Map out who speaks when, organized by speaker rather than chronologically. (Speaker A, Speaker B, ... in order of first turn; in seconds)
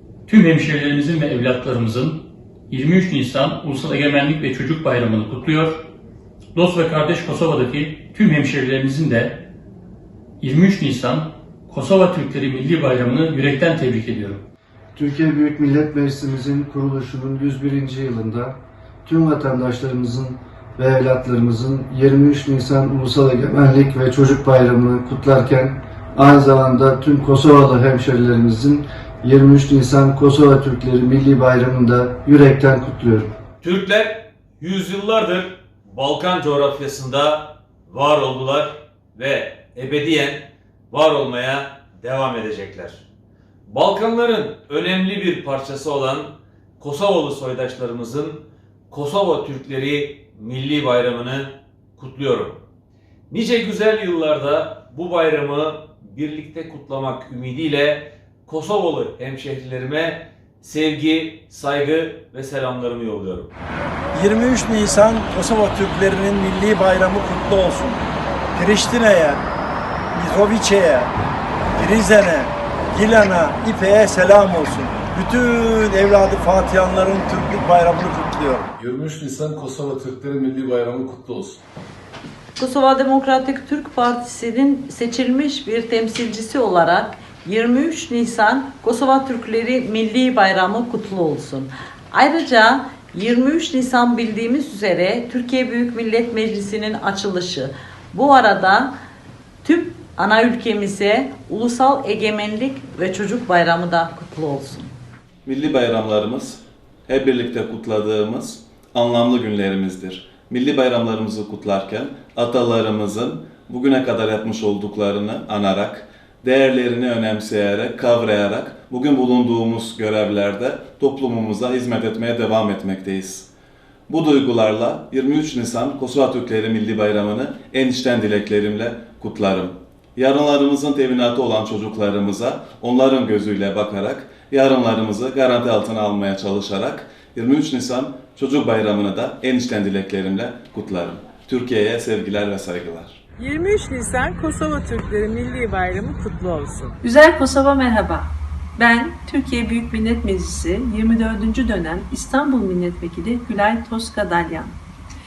Speaker A: 0.3-5.8, 6.5-9.4, 10.4-14.4
Speaker B: 14.9-33.3
Speaker C: 33.6-43.0, 43.7-52.6, 53.3-63.5
Speaker D: 64.1-69.4, 70.1-71.1, 71.8-78.7
Speaker E: 78.8-81.6
Speaker F: 82.6-98.9, 99.6-104.9
Speaker G: 105.5-123.5, 124.1-143.2
Speaker H: 143.4-146.9
Speaker I: 147.0-154.8